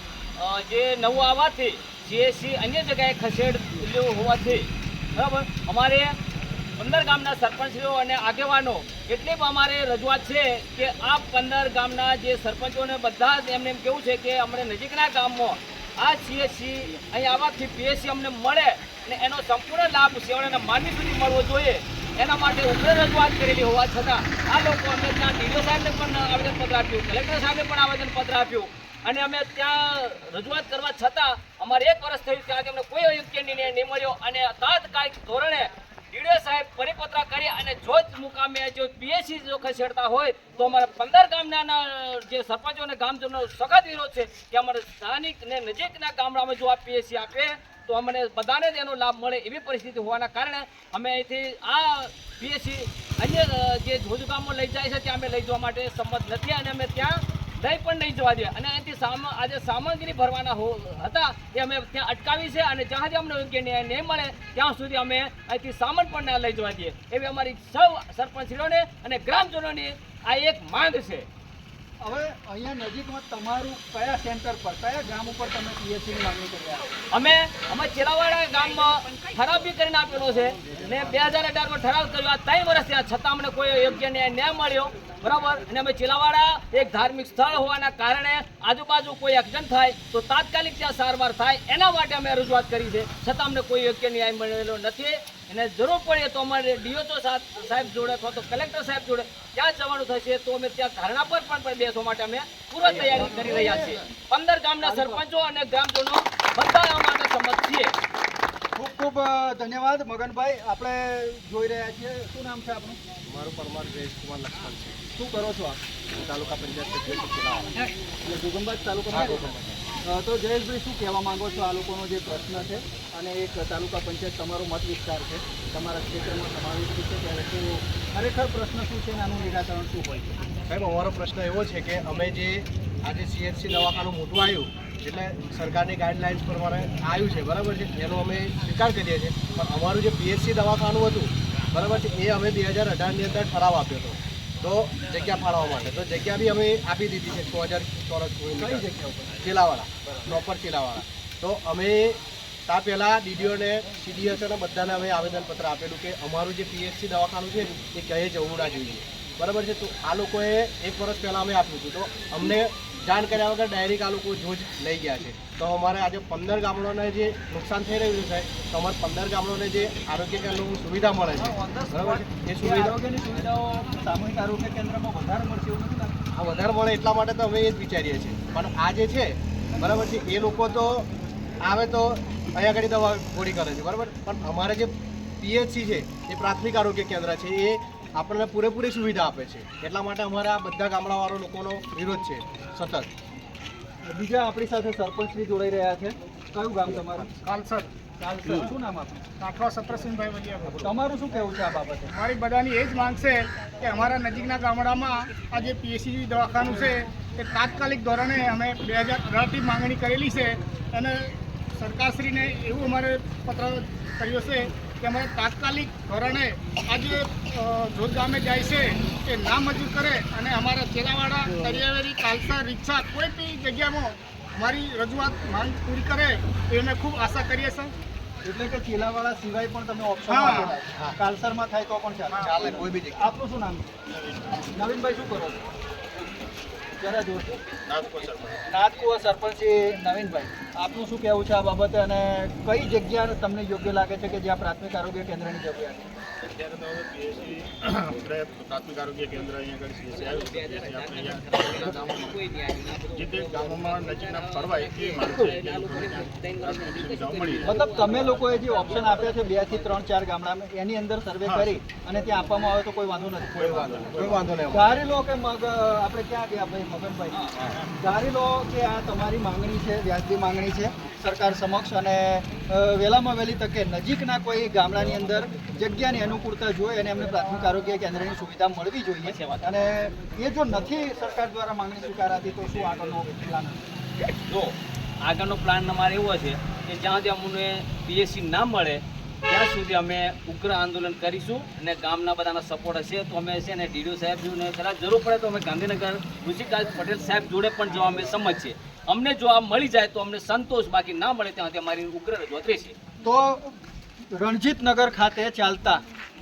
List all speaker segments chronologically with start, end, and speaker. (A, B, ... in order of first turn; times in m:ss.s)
0:00.4-0:06.2 A
0:06.8-1:11.3 A
1:12.0-1:16.9 B
1:17.1-1:47.9 A
1:43.0-1:44.0 B
1:44.8-1:45.2 B
1:48.8-1:53.0 B
1:53.3-1:55.1 C
1:55.2-1:55.8 B
1:56.1-1:57.8 C
1:58.2-1:59.5 B
1:59.1-1:59.8 C
2:00.0-2:10.4 B
2:10.7-2:28.9 C
2:28.6-2:29.4 B
2:29.4-2:53.0 C
2:51.4-2:56.2 B
2:56.3-3:01.1 C
3:01.6-3:13.1 C
3:14.1-3:17.3 B
3:17.4-3:17.9 D
3:18.2-3:19.2 B
3:19.4-3:20.9 D
3:20.8-3:22.1 B
3:22.1-3:47.9 D
3:48.4-3:53.8 B
3:50.3-3:50.7 D
3:52.3-3:53.3 C
3:54.1-3:54.6 E
3:54.7-3:55.6 B
3:57.0-3:57.6 B
3:57.8-3:58.6 E
3:58.7-4:06.1 B
4:06.4-4:12.4 E
4:10.1-4:20.0 A
4:13.1-4:18.3 E
4:17.6-4:24.0 B
4:21.4-4:21.8 E
4:23.6-4:24.5 E
4:23.6-4:24.9 C
4:24.7-4:27.4 B
4:27.3-4:27.6 A
4:28.0-4:43.8 B
4:39.2-4:39.8 A
4:44.3-5:03.0 A
5:03.2-5:03.8 B
5:04.3-5:06.0 B